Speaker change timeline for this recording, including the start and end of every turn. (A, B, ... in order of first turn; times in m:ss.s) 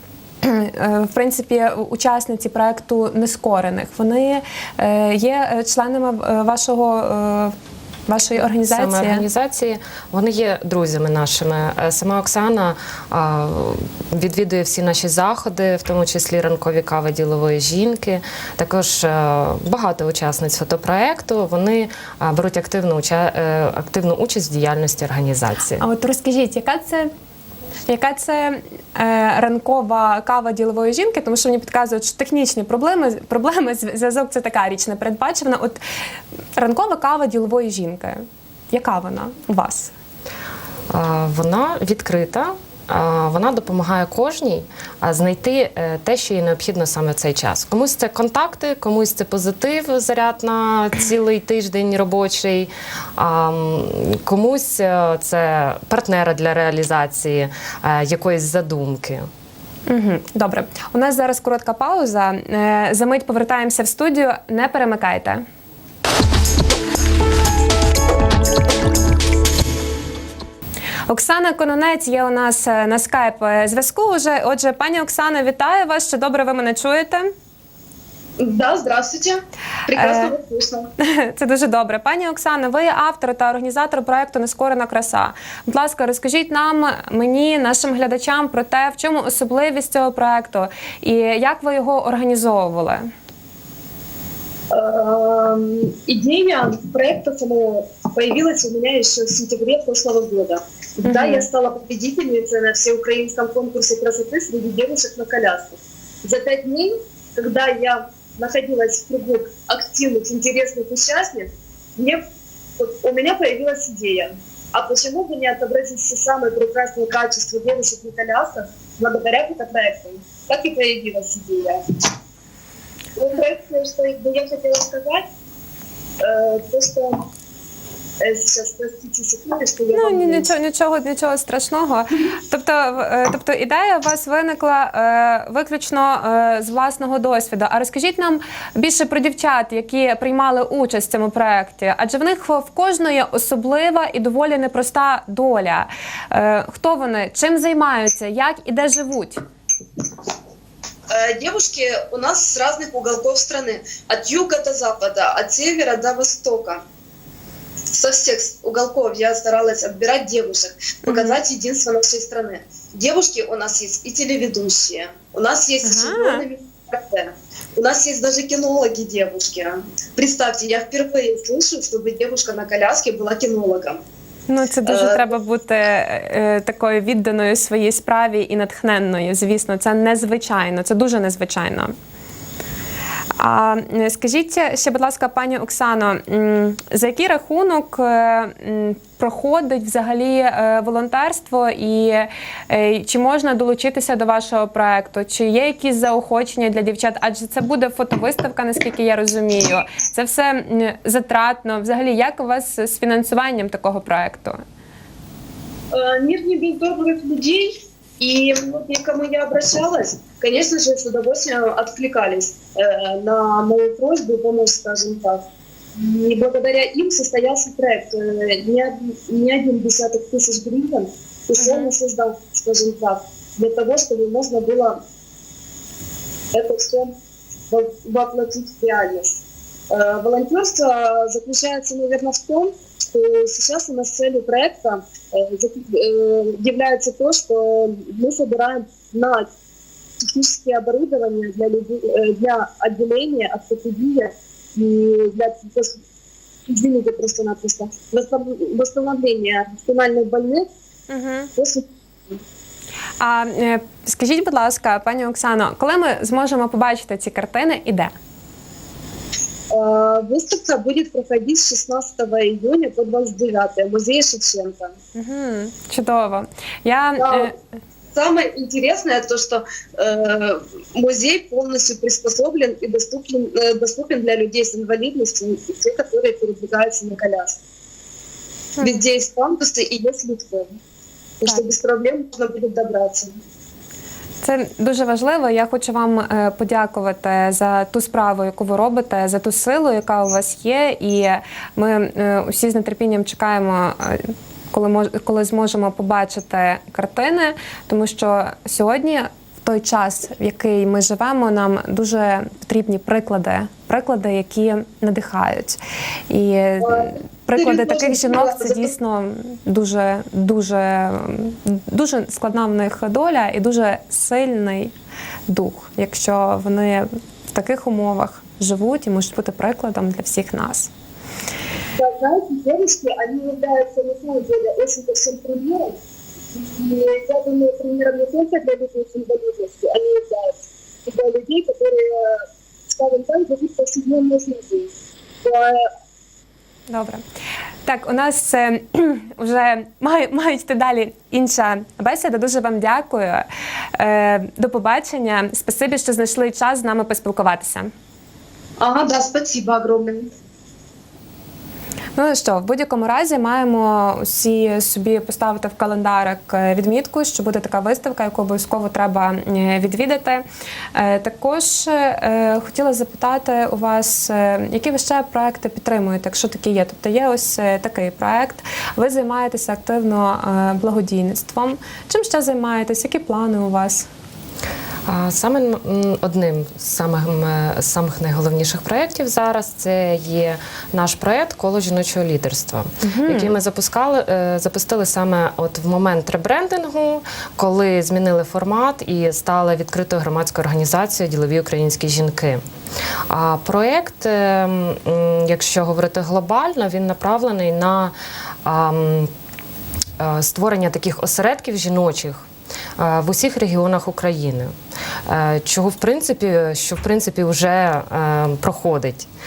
0:00.4-0:07.5 A
0:08.1-0:09.2 A
0:08.7-0:25.8 B
0:25.8-0:27.1 A
0:27.9-0:35.8 A
0:36.6-0:39.9 A
0:40.9-0:59.3 B
0:59.9-1:05.4 A
1:11.1-1:17.3 A
1:18.4-1:20.9 C
1:19.9-1:20.4 A
1:21.0-1:33.0 A
1:34.7-1:52.2 C
1:41.0-1:41.5 A
1:52.8-2:01.8 C
2:03.2-2:05.2 C
2:06.2-2:07.2 C
2:08.2-2:10.5 C
2:09.9-2:29.4 A
2:31.1-2:36.8 C
2:37.9-2:54.0 C
2:41.0-2:41.4 A
2:45.8-2:46.4 A
2:54.5-3:01.9 A
2:54.8-2:55.3 C
3:03.4-3:24.6 A
3:25.9-3:35.4 C
3:36.0-3:45.0 C
3:41.6-3:41.9 A
3:46.5-3:47.1 C
3:47.7-3:59.5 C
4:00.2-4:06.0 C
4:06.7-4:10.6 C
4:11.1-4:11.5 A
4:11.6-4:12.4 C
4:13.2-4:18.1 A
4:19.7-4:24.9 C
4:25.1-4:27.5 A
4:27.2-4:27.5 C
4:28.1-4:37.6 C
4:38.8-4:39.0 A
4:38.8-4:40.7 C
4:41.4-4:43.3 C
4:44.4-5:05.8 A
5:06.3-5:14.9 A
5:07.5-5:08.9 C
5:15.5-5:20.9 A
5:22.0-5:26.0 C
5:26.5-5:34.9 C
5:35.4-5:35.8 C
5:36.9-5:37.2 A
5:37.8-5:43.4 A
5:44.0-5:47.9 A
5:48.8-5:50.3 C
5:52.2-6:00.4 A
6:00.9-6:14.1 A
6:15.1-6:32.6 B
6:23.0-6:23.5 A
6:33.3-6:38.1 B
6:38.6-6:39.3 B
6:40.2-6:42.4 B
6:43.0-6:44.7 B
6:45.3-6:49.3 B